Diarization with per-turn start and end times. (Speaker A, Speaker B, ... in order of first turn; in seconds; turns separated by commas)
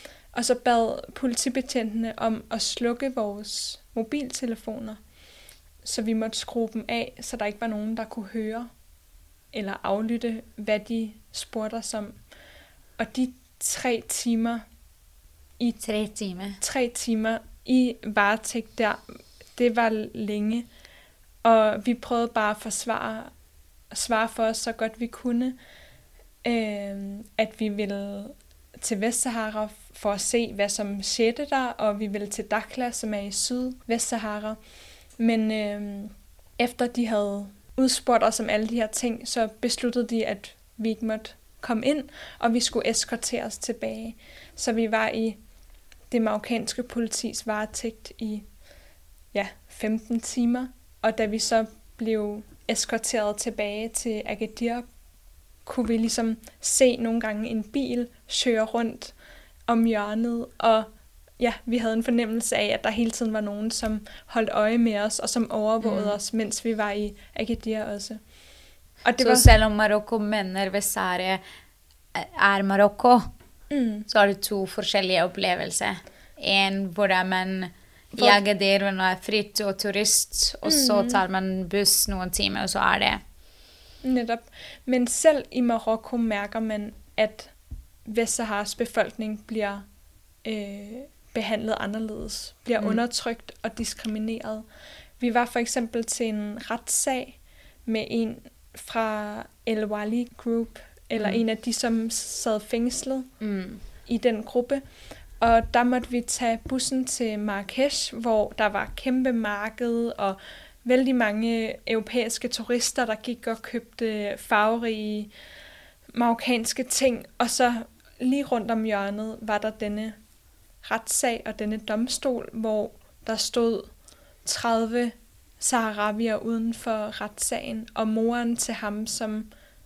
Speaker A: 0.3-5.0, Speaker A: 5.8-8.7, Speaker A: 9.5-12.2, Speaker A: 13.0-14.6, Speaker B: 15.8-16.6, Speaker A: 16.6-19.0, Speaker A: 19.5-20.6, Speaker A: 21.4-23.3, Speaker A: 23.9-25.6, Speaker A: 26.4-34.6, Speaker A: 35.2-45.4, Speaker A: 46.1-48.5, Speaker A: 49.3-54.9, Speaker A: 55.6-59.1, Speaker A: 59.7-68.2, Speaker B: 65.8-66.2, Speaker A: 69.0-69.5, Speaker B: 69.2-71.4, Speaker B: 72.1-73.3, Speaker A: 73.7-74.1, Speaker B: 74.1-83.2, Speaker A: 78.1-78.4, Speaker A: 80.6-81.2, Speaker A: 84.0-87.5, Speaker A: 88.0-89.8, Speaker A: 90.4-94.6, Speaker A: 95.2-103.3, Speaker B: 103.4-103.8, Speaker A: 104.0-104.8, Speaker A: 105.4-115.3, Speaker A: 116.1-120.2, Speaker A: 120.8-123.9, Speaker A: 124.4-129.5